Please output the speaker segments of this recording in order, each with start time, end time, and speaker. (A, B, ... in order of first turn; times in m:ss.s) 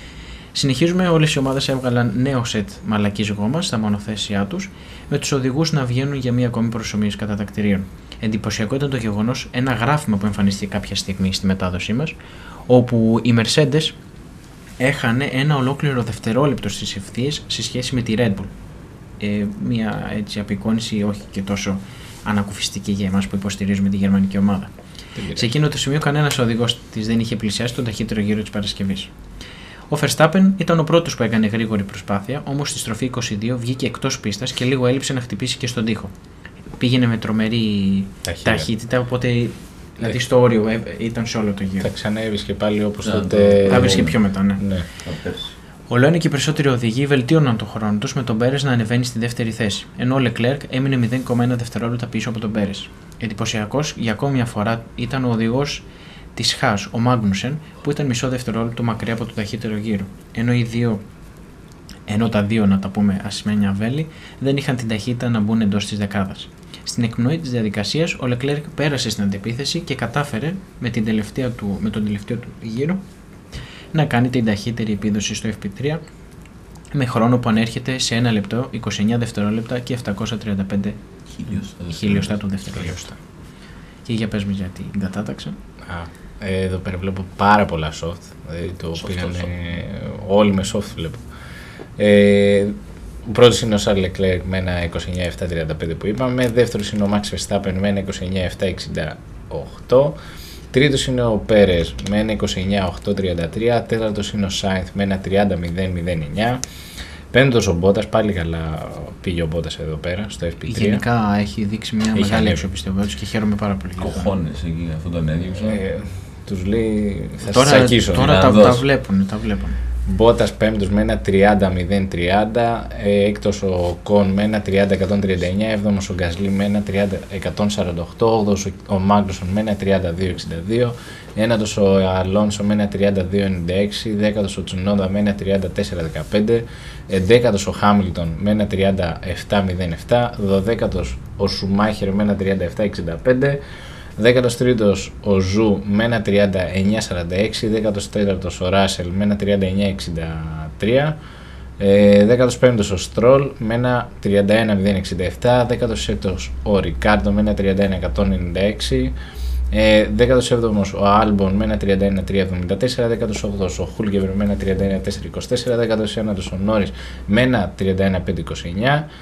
0:00.5-0:12.2 A
0:12.7-0:14.0 A
0:14.8-0:18.5 A
0:19.2-0:24.7 A
0:25.2-0:25.5 B
0:25.3-0:29.1 A
0:29.9-0:36.1 A
0:36.8-0:41.9 A
0:38.2-0:38.7 B
0:41.8-0:44.8 B
0:43.0-0:44.2 C
0:43.6-0:44.6 A
0:45.0-0:45.5 C
0:45.9-1:01.0 A
1:02.1-1:13.0 A
1:13.9-1:16.0 A
1:16.9-1:21.0 A
1:21.3-1:22.3 C
1:21.9-1:23.1 A
1:24.0-1:25.6 A
1:25.8-1:31.2 B
1:29.0-1:29.5 C
1:32.0-1:40.2 B
1:40.7-1:46.6 B
1:47.3-1:51.0 B
1:50.7-1:54.3 A
1:52.1-1:52.6 B
1:54.0-1:55.8 C
1:55.5-1:58.4 B
1:57.4-1:59.8 A
1:58.1-1:58.8 C
2:00.1-2:23.6 B
2:24.2-2:31.2 B
2:31.8-2:39.1 B
2:39.7-2:49.1 B